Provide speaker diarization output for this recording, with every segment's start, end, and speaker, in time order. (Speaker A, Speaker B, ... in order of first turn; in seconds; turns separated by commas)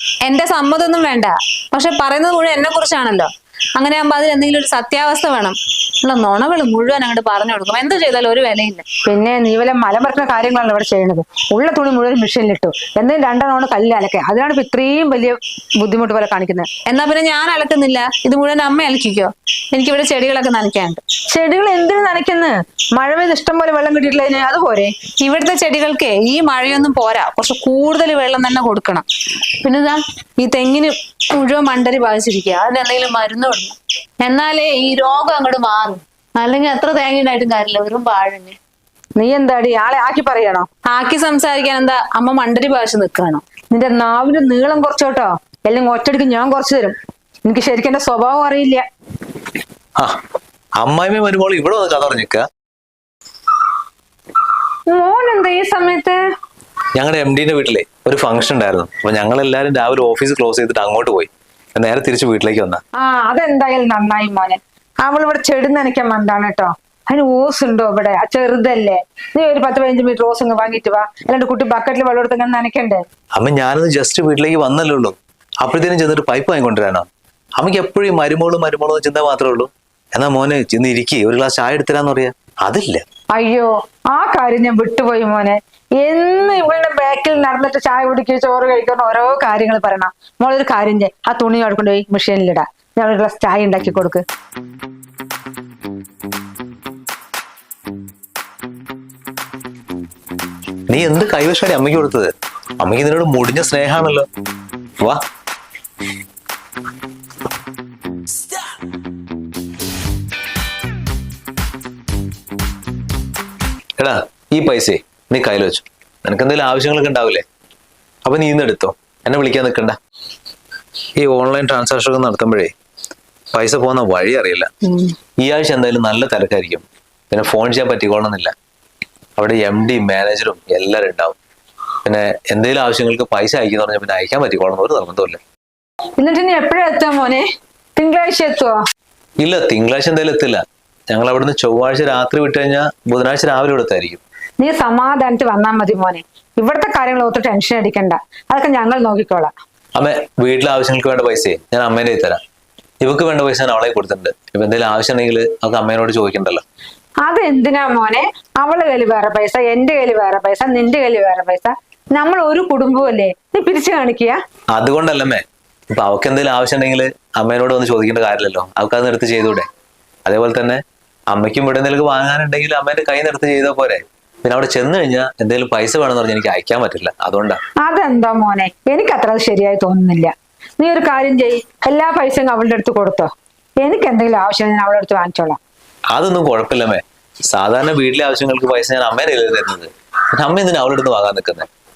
Speaker A: 0.2-8.8, Speaker B: 9.1-16.7, Speaker A: 16.9-21.0, Speaker B: 21.3-24.9, Speaker A: 25.2-29.1, Speaker A: 29.6-38.6, Speaker B: 39.2-40.7, Speaker A: 40.9-43.4, Speaker B: 43.7-48.8, Speaker C: 50.8-52.5, Speaker B: 54.9-56.2, Speaker C: 57.0-62.8, Speaker B: 63.0-73.0, Speaker C: 73.4-83.0, Speaker B: 83.3-94.2, Speaker C: 100.9-104.3, Speaker C: 114.0-117.4, Speaker C: 118.3-120.0, Speaker C: 121.2-122.7, Speaker C: 123.5-124.7, Speaker C: 125.4-128.5, Speaker C: 129.4-131.4, Speaker C: 132.1-135.4, Speaker B: 136.2-137.5, Speaker B: 138.0-138.8, Speaker C: 139.4-144.2, Speaker B: 144.6-149.5, Speaker C: 150.0-152.4, Speaker C: 153.0-156.6, Speaker B: 157.2-164.4, Speaker C: 164.7-169.7, Speaker C: 170.3-177.6, Speaker B: 177.8-183.3, Speaker B: 183.8-185.6, Speaker C: 186.1-191.7